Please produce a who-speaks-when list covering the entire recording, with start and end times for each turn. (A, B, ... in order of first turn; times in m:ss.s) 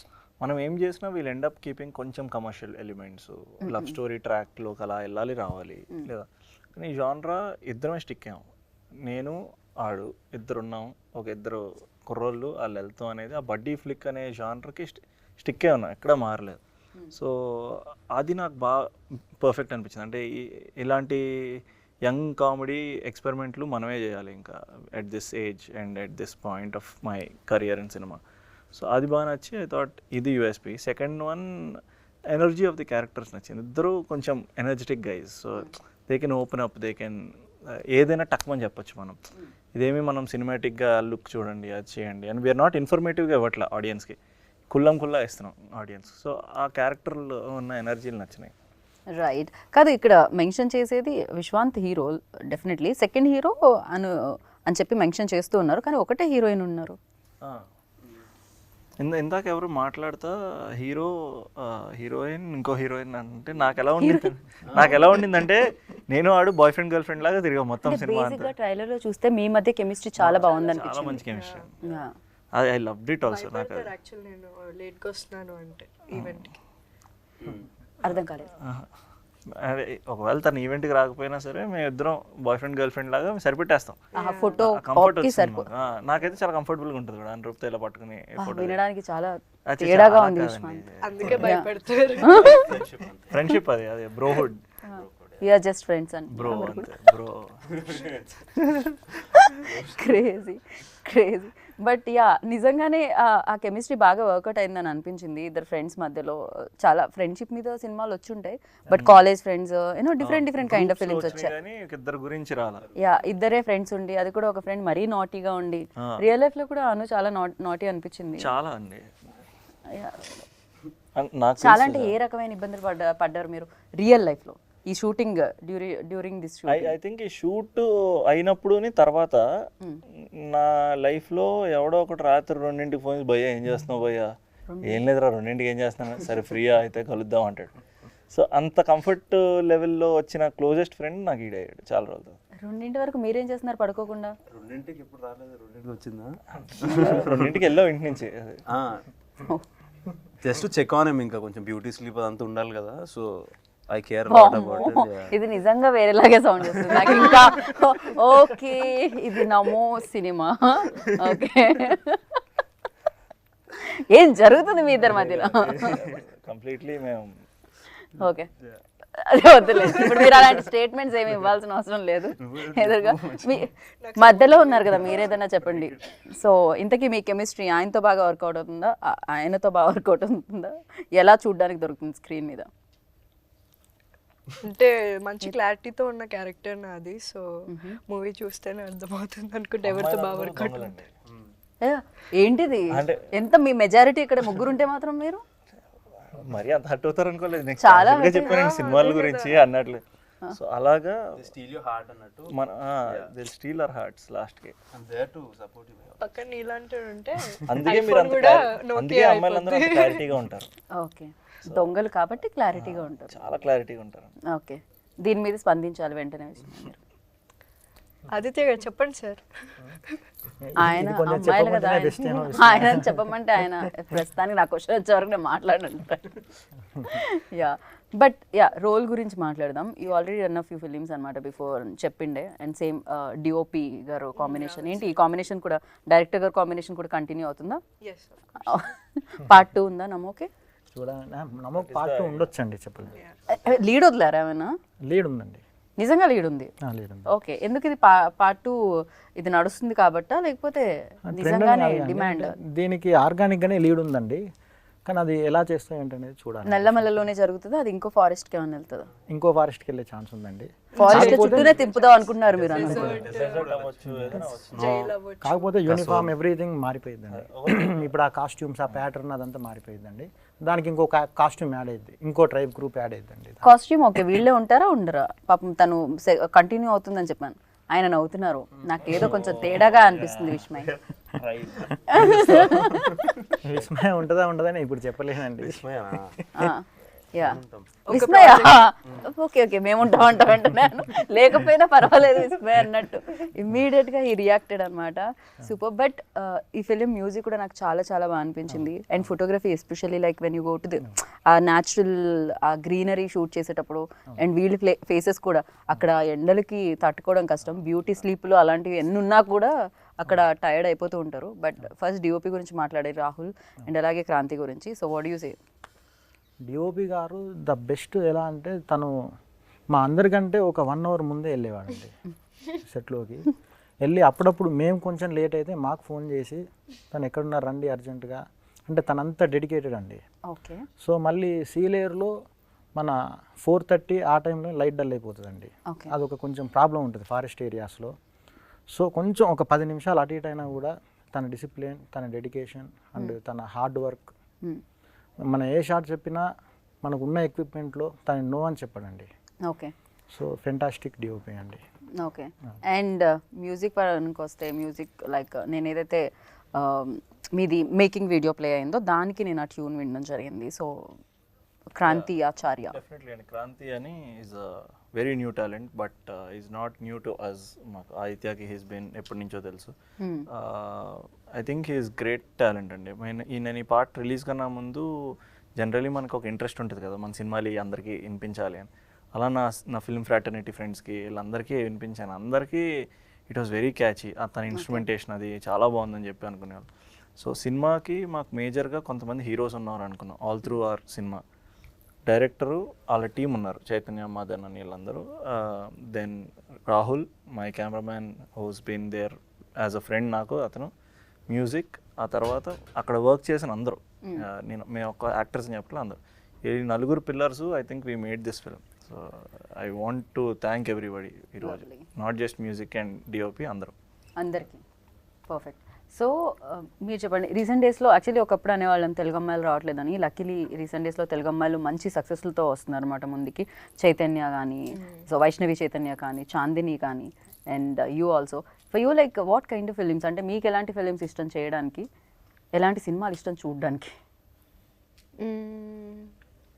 0:00.4-0:08.5 A
0:03.6-0:04.0 B
0:09.0-0:16.6 A
0:17.1-0:18.9 A
0:19.4-0:28.2 A
0:28.7-0:39.2 A
0:39.7-0:44.2 A
0:44.7-0:48.5 A
0:49.1-0:57.0 B
0:59.0-1:08.5 A
1:04.0-1:04.9 B
1:04.7-1:05.0 C
1:07.8-1:11.2 B
1:10.2-1:11.7 A
1:10.4-1:11.7 D
1:11.8-1:12.1 B
1:12.5-1:13.9 A
1:13.3-1:16.5 D
1:16.1-1:16.4 A
1:17.4-1:17.7 C
1:18.0-1:18.5 B
1:18.6-1:18.9 A
1:19.5-1:24.1 A
1:24.2-1:24.6 D
1:24.2-1:25.7 B
1:24.6-1:28.8 A
1:28.4-1:31.7 B
1:29.7-1:31.5 A
1:31.0-1:32.8 D
1:32.2-1:32.8 B
1:32.2-1:33.4 C
1:33.3-1:34.6 A
1:34.8-1:37.0 B
1:34.9-1:35.4 C
1:36.3-1:37.8 A
1:37.7-1:38.5 C
1:39.1-1:40.2 C
1:39.3-1:51.5 B
1:48.9-1:49.2 A
1:50.2-1:52.9 A
1:53.0-1:58.5 B
1:56.0-1:56.2 A
1:58.4-1:59.1 A
1:59.9-2:00.4 B
2:01.2-2:02.1 A
2:01.6-2:07.0 B
2:06.7-2:09.5 A
2:10.3-2:17.8 A
2:14.7-2:15.0 B
2:18.3-2:22.4 A
2:22.6-2:24.4 B
2:24.5-2:27.6 C
2:26.6-2:28.6 A
2:28.7-2:29.1 C
2:30.4-2:35.4 C
2:34.3-2:42.4 B
2:36.6-2:37.6 C
2:43.7-2:46.0 B
2:45.0-2:47.4 A
2:45.8-2:46.2 C
2:48.2-2:48.5 B
2:49.1-3:02.7 B
2:52.4-2:53.7 C
2:54.0-2:55.4 D
3:04.6-3:11.0 D
3:07.7-3:08.0 B
3:09.8-3:11.1 A
3:11.8-3:15.4 B
3:12.9-3:13.3 A
3:16.3-3:21.4 A
3:17.8-3:18.7 B
3:18.4-3:19.6 D
3:21.3-3:22.5 C
3:22.5-3:24.8 A
3:24.9-3:26.2 C
3:26.2-3:30.2 D
3:27.7-3:30.7 A
3:30.9-3:33.4 B
3:32.8-3:34.4 A
3:34.5-3:37.0 B
3:38.3-3:39.4 D
3:40.6-3:43.3 E
3:40.8-3:46.4 B
3:47.0-3:57.8 B
3:54.4-3:55.2 D
3:58.0-3:58.8 D
3:58.6-4:00.5 B
4:00.9-4:03.2 E
4:01.8-4:02.5 A
4:03.2-4:03.6 D
4:03.5-4:04.8 B
4:05.0-4:05.6 E
4:06.0-4:06.7 B
4:06.8-4:07.3 E
4:07.3-4:12.6 B
4:11.3-4:14.4 E
4:15.1-4:17.0 E
4:16.6-4:19.1 B
4:19.3-4:21.8 E
4:21.0-4:23.7 D
4:21.0-4:23.3 B
4:22.5-4:25.2 C
4:22.8-4:23.2 E
4:22.8-4:25.1 A
4:24.1-4:24.5 E
4:24.7-4:25.7 D
4:25.4-4:33.7 E
4:25.9-4:26.3 C
4:27.3-4:28.1 A
4:33.6-4:40.9 B
4:39.1-4:42.7 A
4:42.1-4:43.3 B
4:42.3-4:43.8 C
4:43.6-4:46.7 E
4:45.6-4:46.4 C
4:46.6-5:15.6 B
4:47.4-4:48.0 C
4:48.1-4:48.8 D
5:16.6-5:19.2 E
5:19.9-5:22.2 E
5:22.8-5:23.5 E
5:24.0-5:30.2 E
5:30.5-5:30.9 B
5:31.0-5:32.4 E
5:33.0-5:38.2 E
5:38.9-5:44.3 E
5:45.4-5:46.5 E
5:47.0-5:49.3 E
5:49.7-5:49.9 B
5:50.3-5:51.8 E
5:52.2-6:01.2 B
6:02.0-6:03.0 B
6:02.9-6:09.9 A
6:10.2-6:10.5 B
6:10.5-6:22.9 A
6:23.5-6:31.4 A
6:24.7-6:25.1 B
6:32.3-6:40.9 A
6:41.5-6:53.9 A
6:51.6-6:52.1 B
6:54.4-6:54.8 B
6:55.5-7:12.1 B
7:05.0-7:05.3 D
7:12.8-7:14.1 B
7:15.4-7:16.3 D